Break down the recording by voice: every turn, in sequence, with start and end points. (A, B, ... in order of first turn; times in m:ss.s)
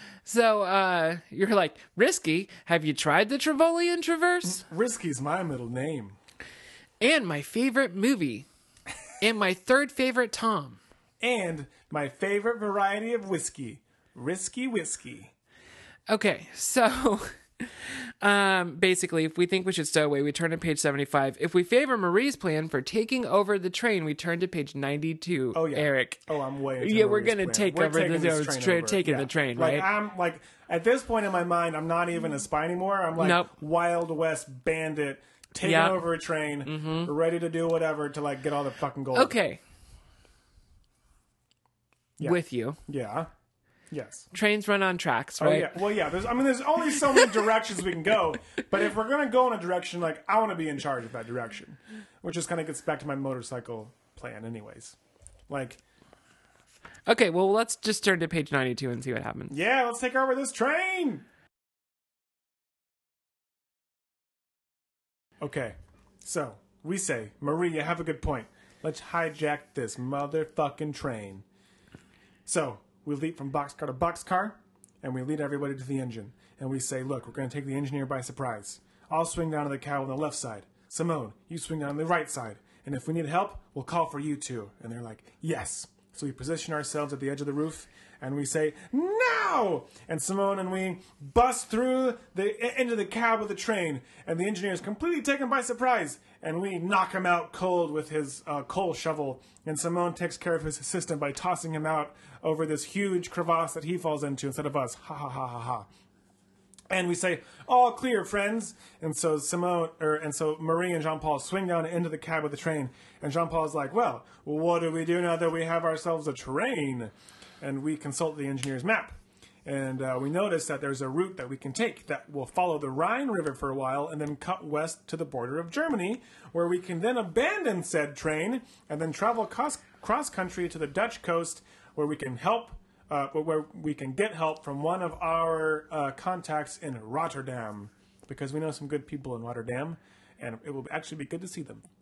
0:00.3-0:04.6 A
0:04.4-0:06.2 B
0:07.0-0:08.5 A
0:09.2-0:10.8 A
0:11.2-0:15.3 B
0:16.1-0:26.2 A
0:25.5-0:39.3 B
0:26.8-0:29.9 A
0:33.2-0:33.5 A
0:35.6-0:36.0 A
0:36.6-0:37.1 A
0:39.1-0:39.6 A
0:42.2-0:43.3 B
0:42.2-0:42.8 A
0:43.9-0:44.3 B
0:44.3-0:45.8 A
0:45.4-0:55.0 B
0:55.5-0:55.8 B
0:57.1-0:59.6 A
0:59.5-1:01.3 B
1:05.4-1:11.4 B
1:12.5-1:45.9 B
1:46.9-1:59.1 B
1:59.6-2:21.8 B